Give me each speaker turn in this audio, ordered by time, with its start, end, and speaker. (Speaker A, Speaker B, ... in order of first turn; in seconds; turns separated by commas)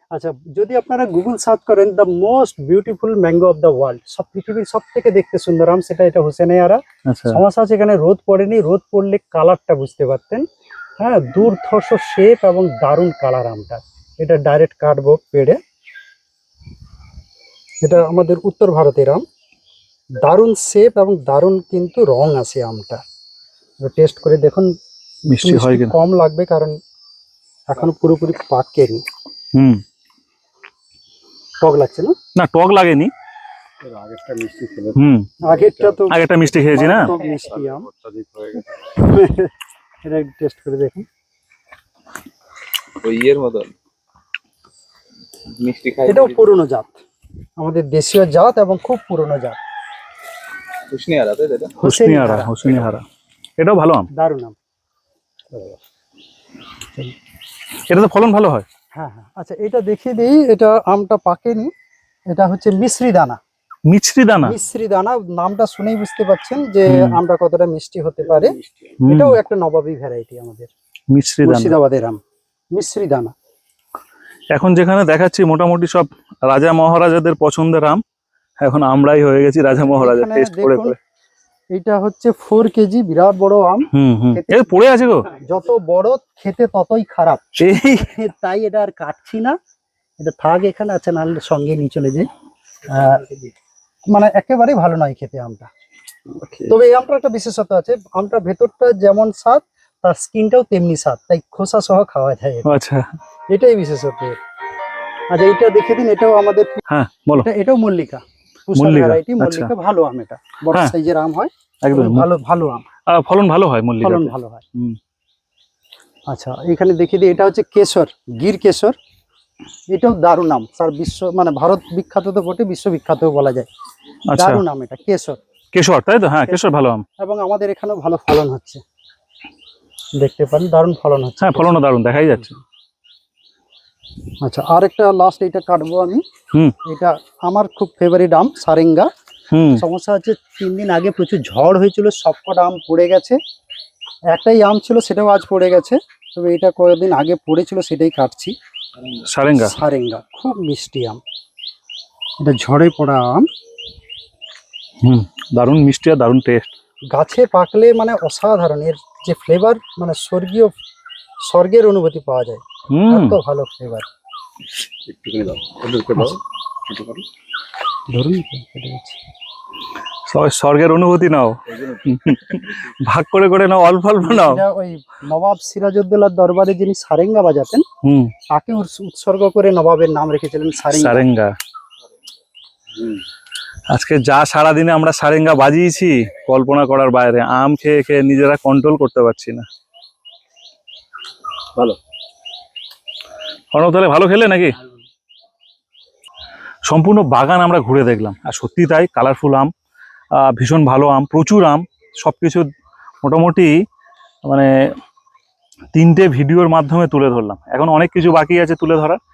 Speaker A: 0.1-10.4, Speaker B: 7.1-7.4, Speaker A: 11.0-15.6, Speaker A: 17.8-19.2, Speaker A: 20.1-23.0, Speaker A: 23.8-24.7, Speaker B: 25.3-25.9, Speaker A: 25.3-26.8, Speaker A: 27.7-29.0, Speaker B: 29.5-29.8, Speaker A: 31.6-32.1, Speaker B: 32.4-33.1, Speaker C: 33.8-36.1, Speaker B: 35.0-35.3, Speaker A: 35.4-36.2, Speaker B: 36.1-37.1, Speaker A: 36.7-37.9, Speaker C: 36.9-38.7, Speaker A: 39.0-39.5, Speaker A: 40.0-41.1, Speaker C: 43.0-43.7, Speaker C: 45.5-46.5, Speaker A: 46.0-47.0, Speaker A: 47.6-49.6, Speaker C: 50.9-51.7, Speaker A: 51.8-52.9, Speaker B: 51.8-53.0, Speaker B: 53.6-54.1, Speaker A: 54.1-54.5, Speaker B: 57.9-58.6, Speaker A: 58.9-61.7, Speaker A: 62.3-63.4, Speaker B: 63.9-64.5, Speaker A: 64.4-70.7, Speaker B: 66.9-67.2, Speaker C: 68.6-68.9, Speaker B: 69.0-69.4, Speaker B: 71.1-71.8, Speaker A: 71.4-72.2, Speaker A: 72.7-73.3, Speaker B: 74.5-78.0, Speaker B: 78.6-81.0, Speaker A: 79.8-81.0, Speaker A: 81.7-89.6, Speaker B: 83.9-85.3, Speaker B: 87.6-88.1, Speaker A: 90.2-92.3, Speaker A: 92.9-93.3, Speaker A: 94.1-95.7, Speaker C: 96.3-96.7, Speaker A: 96.7-102.8, Speaker B: 102.6-103.1, Speaker A: 103.5-104.4, Speaker A: 105.3-106.8, Speaker B: 106.9-107.5, Speaker A: 107.3-112.8, Speaker B: 108.7-109.7, Speaker B: 111.8-112.3, Speaker B: 113.1-115.0, Speaker A: 114.0-114.6, Speaker A: 116.3-119.0, Speaker A: 119.9-123.7, Speaker B: 124.3-124.6, Speaker A: 124.3-125.4, Speaker B: 125.7-127.0, Speaker A: 127.2-128.8, Speaker A: 130.2-131.7, Speaker B: 131.4-132.5, Speaker A: 134.4-136.2, Speaker A: 136.8-139.1, Speaker B: 139.5-139.8, Speaker A: 139.8-143.4, Speaker A: 144.3-148.5, Speaker B: 149.2-149.7, Speaker A: 149.6-151.2, Speaker A: 152.4-153.5, Speaker B: 155.0-156.7, Speaker A: 157.1-160.8, Speaker A: 161.4-164.1, Speaker B: 162.9-163.4, Speaker C: 165.1-167.2, Speaker A: 168.1-169.2, Speaker B: 170.3-174.6, Speaker C: 171.7-172.6, Speaker A: 174.2-177.8, Speaker B: 178.0-178.3, Speaker A: 178.5-181.2, Speaker B: 180.9-181.5, Speaker B: 183.9-189.7, Speaker B: 193.7-194.8, Speaker B: 196.9-199.7, Speaker B: 200.3-202.7, Speaker B: 203.2-203.8, Speaker B: 204.4-204.9, Speaker B: 205.9-209.2